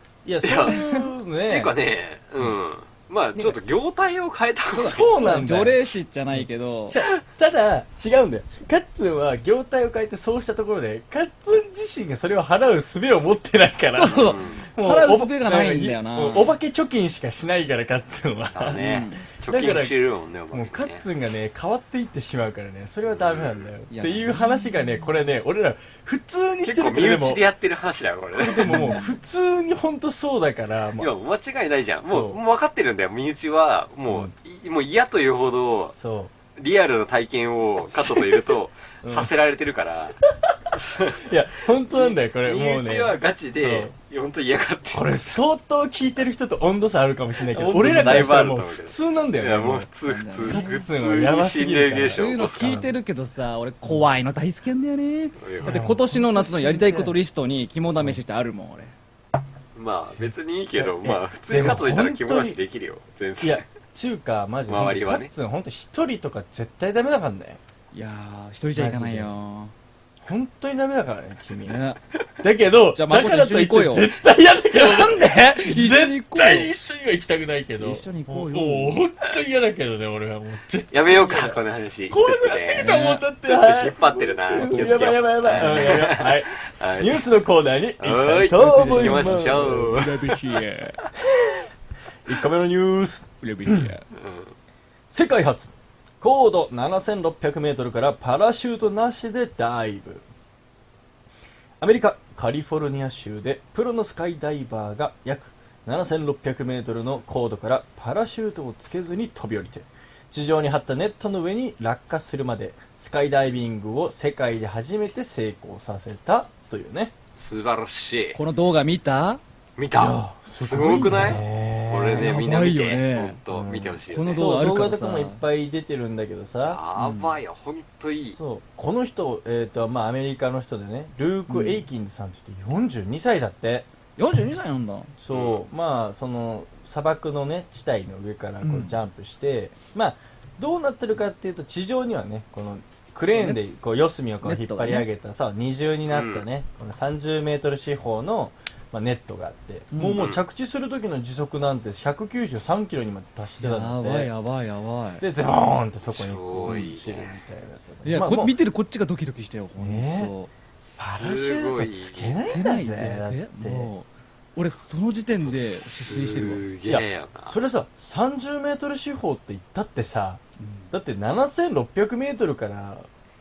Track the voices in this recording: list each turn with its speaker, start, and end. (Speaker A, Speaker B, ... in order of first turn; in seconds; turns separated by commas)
Speaker A: 0.2-1.8, Speaker B: 0.4-0.9, Speaker C: 0.6-1.1, Speaker B: 1.5-5.2, Speaker C: 4.7-7.0, Speaker A: 4.8-20.0, Speaker C: 13.9-16.6, Speaker B: 14.2-14.7, Speaker B: 18.5-21.1, Speaker C: 18.7-19.2, Speaker A: 20.5-27.4, Speaker B: 23.1-23.7, Speaker C: 23.9-24.5, Speaker B: 26.6-29.0, Speaker A: 28.4-31.1, Speaker C: 28.6-29.1, Speaker B: 31.0-35.9, Speaker A: 32.0-32.4, Speaker A: 36.0-36.3, Speaker B: 36.5-40.2, Speaker A: 38.0-39.3, Speaker A: 40.2-40.5, Speaker B: 40.7-41.2, Speaker A: 41.2-43.9, Speaker B: 41.9-45.3, Speaker A: 44.9-49.9, Speaker B: 47.5-52.8, Speaker C: 50.0-50.8, Speaker A: 50.4-52.9, Speaker C: 52.1-58.9, Speaker B: 55.4-55.8, Speaker A: 55.6-57.2, Speaker B: 59.7-63.6, Speaker A: 60.1-62.6, Speaker A: 63.4-67.6, Speaker B: 64.7-65.3, Speaker C: 67.9-69.7, Speaker A: 68.7-69.3, Speaker A: 70.2-71.8, Speaker C: 71.6-72.0, Speaker A: 72.4-90.0, Speaker C: 72.9-74.1, Speaker C: 74.7-76.7, Speaker C: 77.8-79.0, Speaker B: 80.9-82.9, Speaker C: 82.7-83.2, Speaker B: 83.4-87.3, Speaker C: 84.6-86.1, Speaker B: 88.0-90.4, Speaker C: 88.5-91.0, Speaker A: 91.2-91.7, Speaker A: 92.2-93.9, Speaker C: 93.4-94.0, Speaker B: 94.1-94.5, Speaker A: 95.1-100.2, Speaker A: 101.8-117.1, Speaker B: 117.4-118.4, Speaker C: 118.3-119.4, Speaker B: 119.8-124.6, Speaker A: 119.9-122.5, Speaker C: 120.7-121.5, Speaker C: 122.1-123.4, Speaker A: 123.5-126.8, Speaker C: 124.1-125.4, Speaker B: 126.6-128.4, Speaker C: 127.0-127.3, Speaker A: 128.3-133.9, Speaker C: 131.5-131.8, Speaker C: 134.2-135.1, Speaker A: 135.2-154.3, Speaker B: 135.3-135.6, Speaker C: 138.6-139.0, Speaker C: 143.3-143.6, Speaker C: 144.4-145.1, Speaker B: 146.1-146.4, Speaker C: 149.9-150.2, Speaker B: 150.1-150.4, Speaker C: 153.6-155.2, Speaker A: 155.2-158.6, Speaker B: 156.0-157.4, Speaker C: 158.0-160.5, Speaker A: 159.8-160.3, Speaker A: 161.0-163.9, Speaker B: 161.2-162.6, Speaker C: 162.5-166.6, Speaker B: 166.0-167.6, Speaker A: 166.9-173.1, Speaker C: 170.6-170.9